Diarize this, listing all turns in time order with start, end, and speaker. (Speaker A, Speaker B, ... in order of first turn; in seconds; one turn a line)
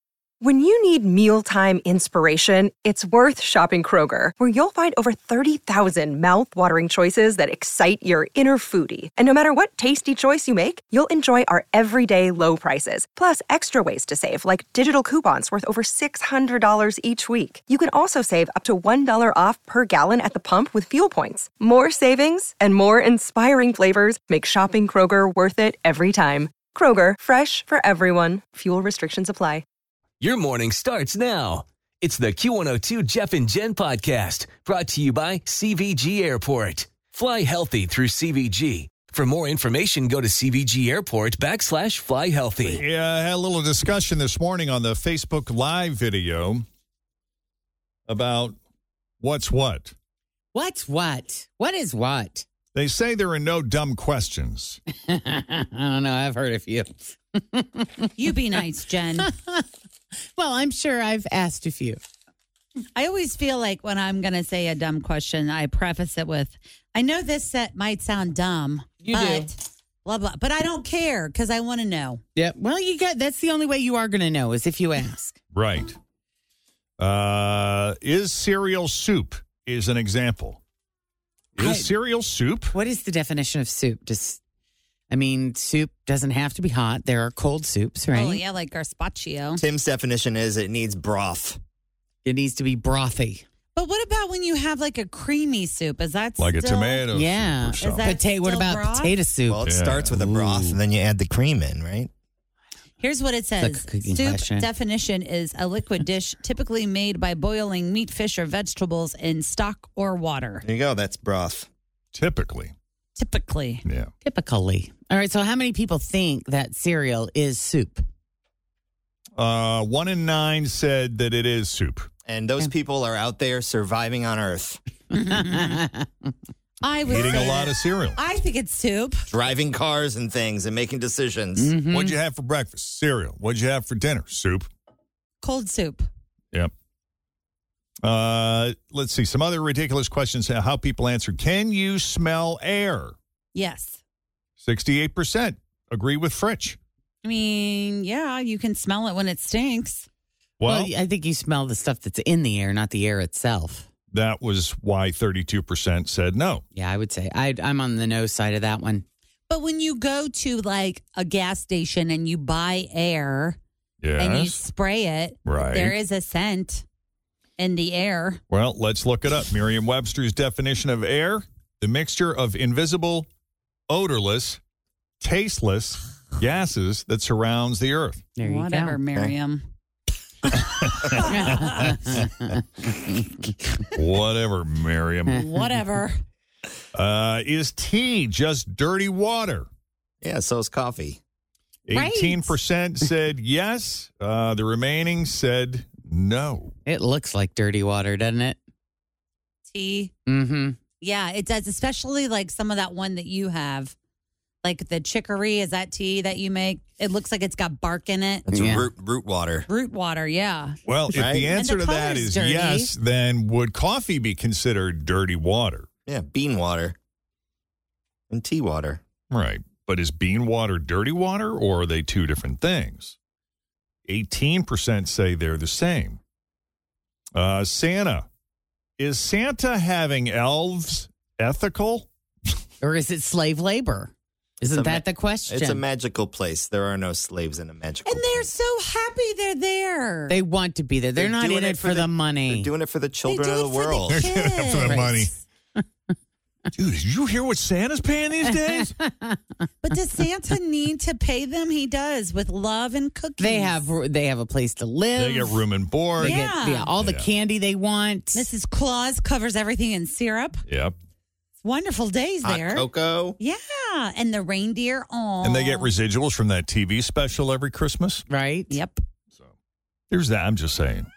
Speaker A: 0.4-29.6
Speaker B: 30.2-42.8
Speaker C: 42.6-46.6
Speaker C: 48.1-48.6
Speaker C: 49.2-49.9
Speaker D: 50.5-52.5
Speaker C: 52.7-54.8
Speaker D: 55.1-58.3
Speaker E: 58.1-59.3
Speaker D: 59.2-59.6
Speaker D: 60.4-62.0
Speaker E: 63.0-72.2
Speaker D: 69.0-69.5
Speaker D: 72.3-75.4
Speaker C: 75.5-76.0
Speaker C: 77.0-80.6
Speaker D: 81.5-81.9
Speaker C: 81.6-82.7
Speaker D: 82.7-84.4
Speaker D: 85.1-88.4
Speaker E: 88.1-89.6
Speaker F: 89.6-91.6
Speaker D: 92.2-93.4
Speaker E: 93.7-97.0
Speaker C: 96.4-98.2
Speaker D: 97.1-100.8
Speaker E: 97.8-99.2
Speaker F: 99.5-102.1
Speaker C: 99.6-100.3
Speaker E: 103.0-110.6
Speaker D: 103.6-104.7
Speaker F: 110.6-111.7
Speaker C: 112.1-112.7
Speaker E: 113.2-113.8
Speaker C: 113.8-114.1
Speaker D: 114.2-118.0
Speaker C: 119.4-122.1
Speaker F: 122.2-124.8
Speaker E: 125.1-125.8
Speaker D: 125.3-126.0
Speaker E: 126.8-129.2
Speaker C: 127.0-128.2
Speaker F: 129.3-131.8
Speaker D: 131.6-132.2
Speaker C: 131.9-134.7
Speaker E: 135.4-136.1
Speaker C: 138.0-143.2
Speaker E: 143.5-144.0
Speaker C: 144.6-146.8
Speaker E: 147.2-150.1
Speaker C: 150.6-150.9
Speaker D: 150.6-153.9
Speaker C: 154.1-156.6
Speaker D: 156.7-159.0
Speaker E: 159.5-163.6
Speaker C: 164.0-164.6
Speaker E: 164.2-166.8
Speaker C: 165.4-165.9
Speaker E: 167.6-168.4
Speaker C: 168.5-173.3
Speaker C: 173.9-174.6
Speaker C: 175.2-178.3
Speaker D: 178.3-179.0
Speaker E: 178.4-179.7
Speaker E: 180.4-182.0
Speaker C: 180.5-182.2
Speaker D: 181.3-183.2
Speaker C: 183.9-185.4
Speaker E: 185.3-186.2
Speaker C: 186.9-189.7
Speaker F: 190.2-191.2
Speaker C: 191.8-196.7
Speaker E: 191.9-192.6
Speaker D: 196.8-198.6
Speaker E: 199.7-200.1
Speaker D: 200.3-200.8
Speaker E: 201.0-203.9
Speaker E: 204.6-208.5
Speaker F: 208.5-209.7
Speaker D: 208.5-208.9
Speaker E: 209.7-210.8
Speaker C: 210.8-215.9
Speaker F: 211.1-211.5
Speaker E: 211.5-212.9
Speaker F: 216.1-216.9
Speaker F: 218.3-219.0
Speaker C: 219.3-223.2
Speaker C: 224.1-226.2
Speaker C: 227.3-228.3
Speaker C: 229.0-232.1
Speaker D: 232.8-235.8
Speaker F: 234.6-238.5
Speaker E: 238.0-240.3
Speaker D: 240.3-242.7
Speaker F: 241.1-244.2
Speaker E: 243.2-245.3
Speaker C: 244.1-245.3
Speaker D: 244.8-245.2
Speaker C: 246.7-248.9
Speaker D: 248.5-249.4
Speaker E: 249.8-253.8
Speaker D: 253.4-255.6
Speaker C: 255.1-256.4
Speaker D: 256.2-258.4
Speaker E: 256.2-256.9
Speaker C: 257.0-257.3
Speaker E: 258.3-260.6
Speaker C: 260.7-260.9
Speaker E: 261.6-262.9
Speaker F: 262.4-263.4
Speaker E: 263.4-265.9
Speaker C: 265.4-268.2
Speaker D: 268.3-268.8
Speaker E: 268.7-269.0
Speaker C: 270.1-271.1